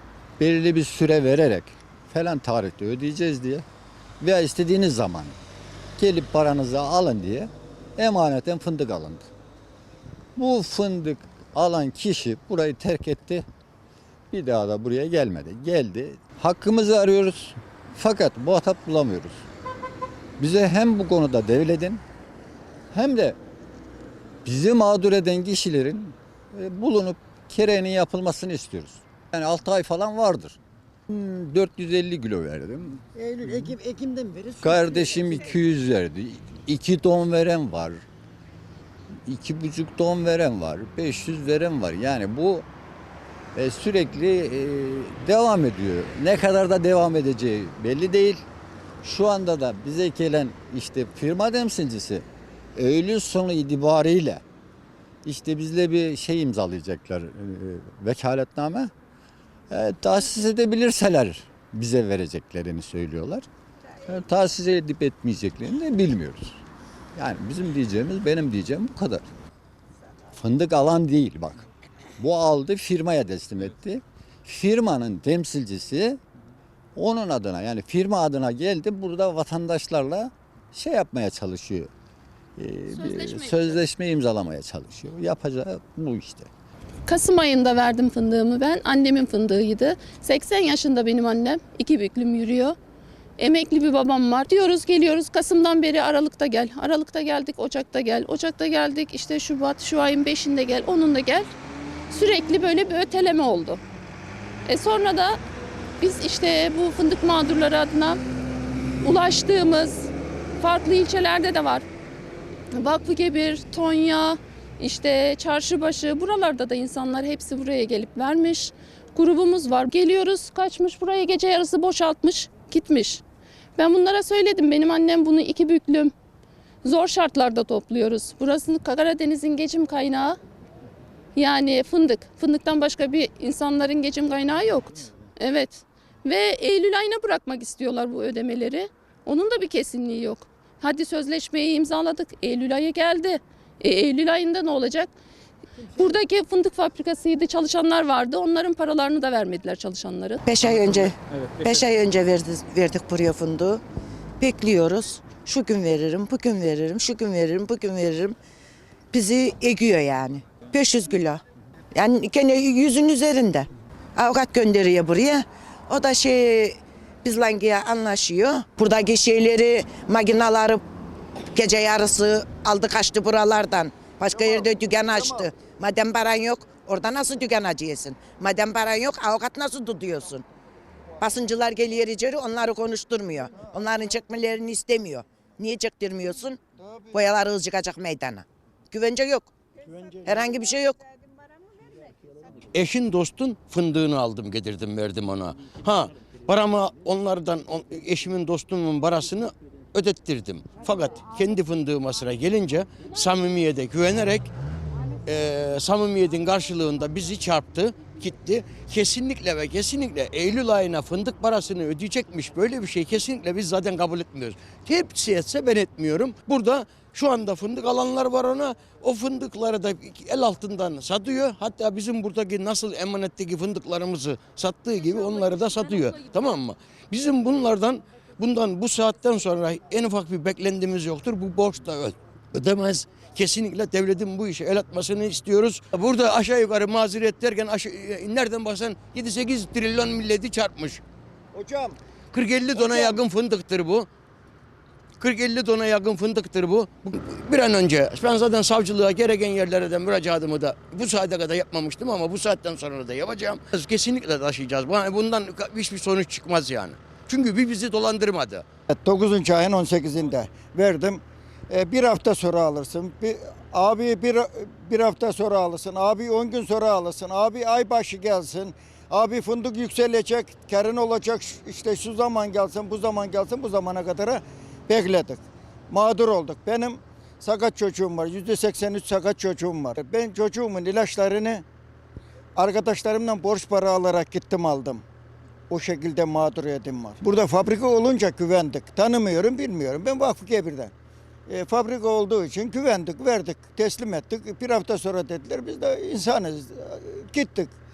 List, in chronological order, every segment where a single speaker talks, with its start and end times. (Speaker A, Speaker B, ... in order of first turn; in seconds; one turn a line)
Speaker A: 0.4-3.7
Speaker A: 4.2-5.4
Speaker A: 6.0-9.3
Speaker A: 10.4-13.4
Speaker A: 14.3-19.4
Speaker A: 20.4-22.0
Speaker A: 22.9-23.4
Speaker A: 24.4-33.1
Speaker A: 34.6-38.0
Speaker A: 39.2-42.7
Speaker A: 43.5-48.4
Speaker A: 49.0-54.4
Speaker A: 55.2-58.9
Speaker A: 59.7-63.5
Speaker A: 64.1-66.6
Speaker A: 67.2-69.3
Speaker A: 70.3-71.7
Speaker A: 72.2-76.2
Speaker A: 77.0-81.9
Speaker A: 82.6-86.5
Speaker B: 82.9-83.8
Speaker B: 87.1-92.8
Speaker B: 93.4-101.5
Speaker B: 102.1-103.8
Speaker B: 104.7-105.4
Speaker B: 106.0-108.2
Speaker B: 109.0-111.8
Speaker B: 112.8-123.2
Speaker B: 123.8-126.1
Speaker B: 126.8-130.4
Speaker B: 131.3-145.1
Speaker B: 145.9-150.4
Speaker C: 150.5-153.8
Speaker C: 154.4-158.3
Speaker C: 159.1-161.4
Speaker C: 161.9-170.8
Speaker C: 171.5-180.4
Speaker D: 174.5-175.5
Speaker C: 181.2-186.6
Speaker D: 186.8-187.2
Speaker C: 187.1-189.5
Speaker C: 190.2-191.0
Speaker E: 192.7-204.5
Speaker E: 205.2-241.0
Speaker D: 241.5-242.0
Speaker E: 242.3-244.1
Speaker D: 242.7-243.2
Speaker E: 245.2-258.6
Speaker D: 258.9-281.6
Speaker D: 282.6-285.0
Speaker D: 285.7-290.9
Speaker D: 291.5-297.7